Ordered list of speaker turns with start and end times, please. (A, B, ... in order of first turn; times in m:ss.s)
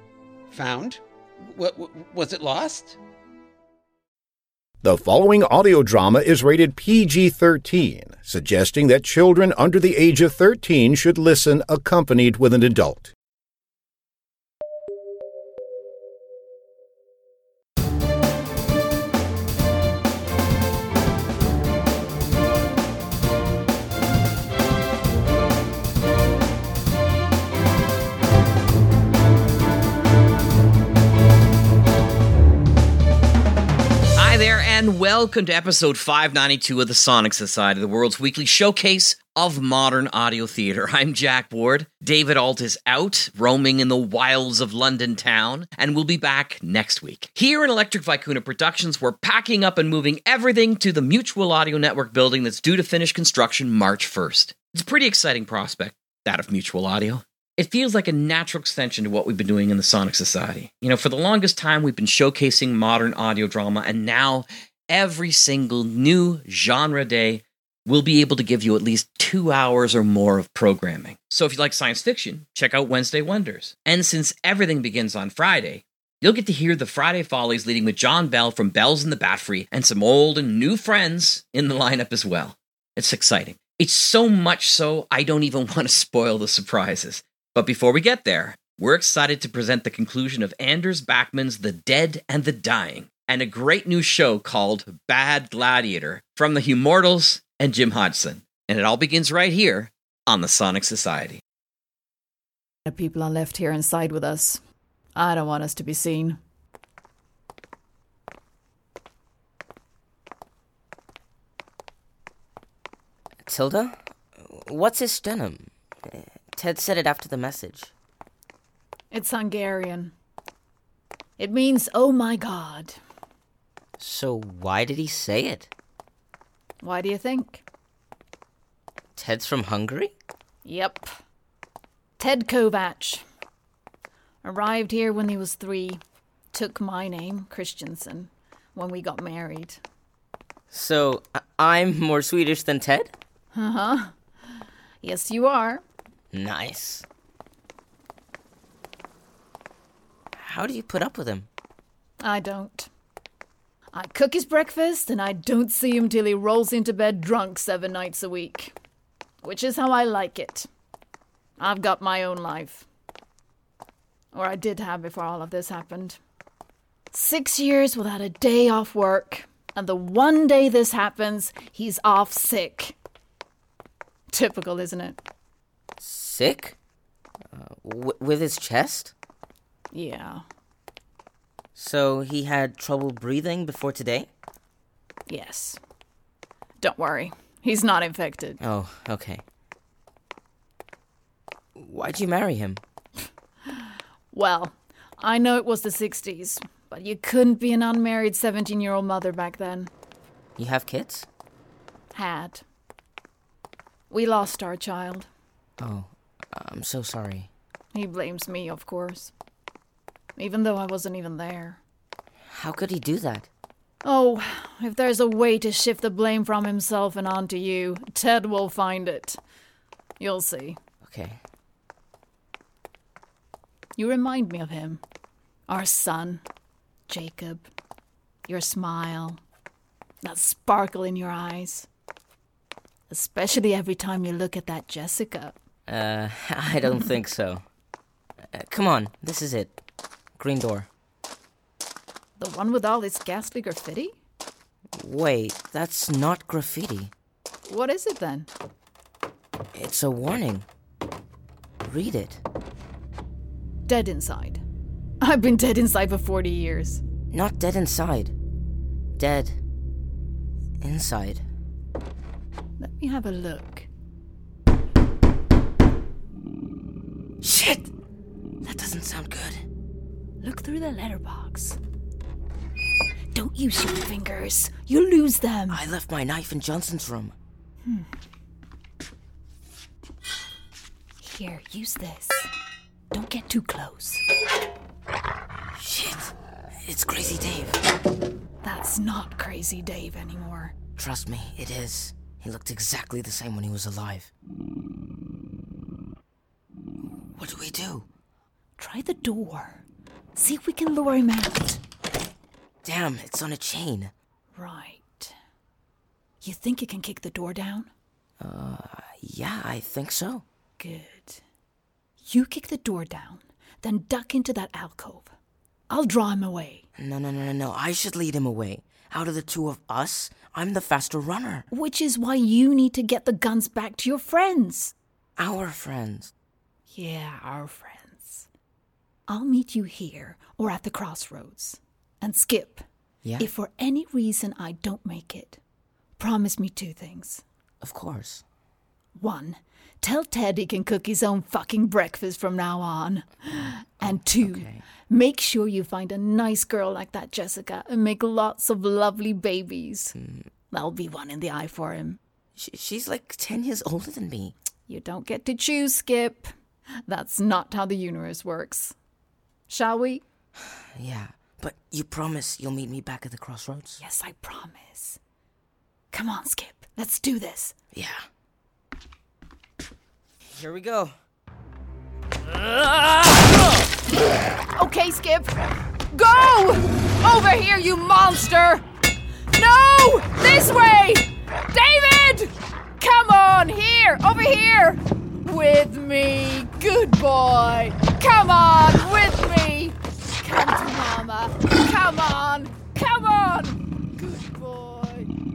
0:00.5-0:03.0 A
0:04.8-0:13.1 B
0:34.2-1:41.4 C
1:42.9-1:44.6 D
1:45.2-1:46.4 D
1:53.4-1:57.9 E
1:59.1-2:00.1 D
2:01.4-2:03.0 D
2:04.0-2:05.7 E
2:06.8-2:07.6 D
2:09.1-2:10.1 E
2:10.6-2:11.1 D
2:12.2-2:13.2 D
2:14.4-2:16.0 D
2:16.5-2:19.8 D
2:20.7-2:23.1 E
2:23.5-2:24.1 D
2:25.0-2:25.8 D
2:26.3-2:27.0 E
2:30.4-2:31.5 E
2:32.2-2:32.9 D
2:33.9-2:38.7 D
2:39.4-2:40.7 D
2:41.6-2:42.8 D
2:44.3-2:46.2 D
2:47.1-2:53.0 D
2:54.3-2:55.2 D
2:56.0-2:56.8 E
2:57.5-2:59.1 E
2:59.9-3:00.4 D
3:01.8-3:04.3 E
3:05.3-3:05.8 D
3:06.8-3:08.6 D
3:08.6-3:09.4 E
3:11.8-3:12.8 E
3:13.7-3:19.9 D
3:20.6-3:21.3 E
3:22.1-3:22.6 D
3:24.1-3:25.3 D
3:25.8-3:27.5 E
3:27.9-3:29.3 D
3:30.4-3:31.8 D
3:32.5-3:33.5 E
3:34.0-3:39.4 D
3:40.2-3:40.8 D
3:41.0-3:41.4 E
3:44.0-3:45.0 D
3:45.7-3:46.4 D
3:47.1-3:47.7 D
3:48.5-3:49.4 D
3:50.2-3:51.9 D
3:53.1-3:55.6 D
3:55.9-3:57.6 E
3:58.5-3:59.8 E
4:00.4-4:00.9 E
4:02.4-4:04.1 D
4:05.0-4:07.1 E
4:07.7-4:08.5 D
4:09.7-4:10.6 E
4:11.8-4:12.4 E
4:13.8-4:14.6 D
4:15.2-4:17.0 D
4:17.3-4:18.3 E
4:19.2-4:19.6 E
4:20.8-4:21.4 E
4:22.8-4:23.9 D
4:27.4-4:27.9 E
4:28.6-4:29.6 E
4:30.4-4:31.8 D
4:33.3-4:35.8 D
4:35.7-4:37.3 E
4:41.2-4:42.5 D
4:43.1-4:44.2 D
4:45.8-4:46.3 E
4:46.9-4:47.8 E
4:48.6-4:50.8 D
4:51.0-4:54.3 E
4:57.4-4:58.1 E
4:58.8-4:59.8 D
5:00.4-5:01.8 D
5:02.8-5:04.1 E
5:04.5-5:05.4 D
5:06.4-5:07.9 D
5:08.4-5:10.4 E
5:10.8-5:11.4 D
5:12.2-5:15.3 D
5:15.9-5:16.8 D
5:17.0-5:21.7 E
5:21.7-5:24.9 D
5:25.4-5:26.3 E
5:26.9-5:28.5 D
5:29.3-5:32.8 D
5:33.2-5:33.5 E
5:33.4-5:35.6 D
5:36.2-5:37.4 D
5:37.8-5:38.4 E
5:39.2-5:50.1 D
5:44.0-5:44.8 E
5:50.2-5:50.5 E
5:50.7-5:52.2 D
5:52.6-5:54.6 E
5:54.9-5:56.5 D
5:57.0-5:58.9 D
5:59.7-6:00.2 D
6:00.9-6:04.0 E
6:04.0-6:05.2 D
6:06.1-6:07.8 D
6:07.9-6:08.2 E
6:10.5-6:11.2 E
6:12.5-6:13.8 E
6:14.8-6:15.6 D
6:16.1-6:18.8 D
6:19.5-6:35.3 D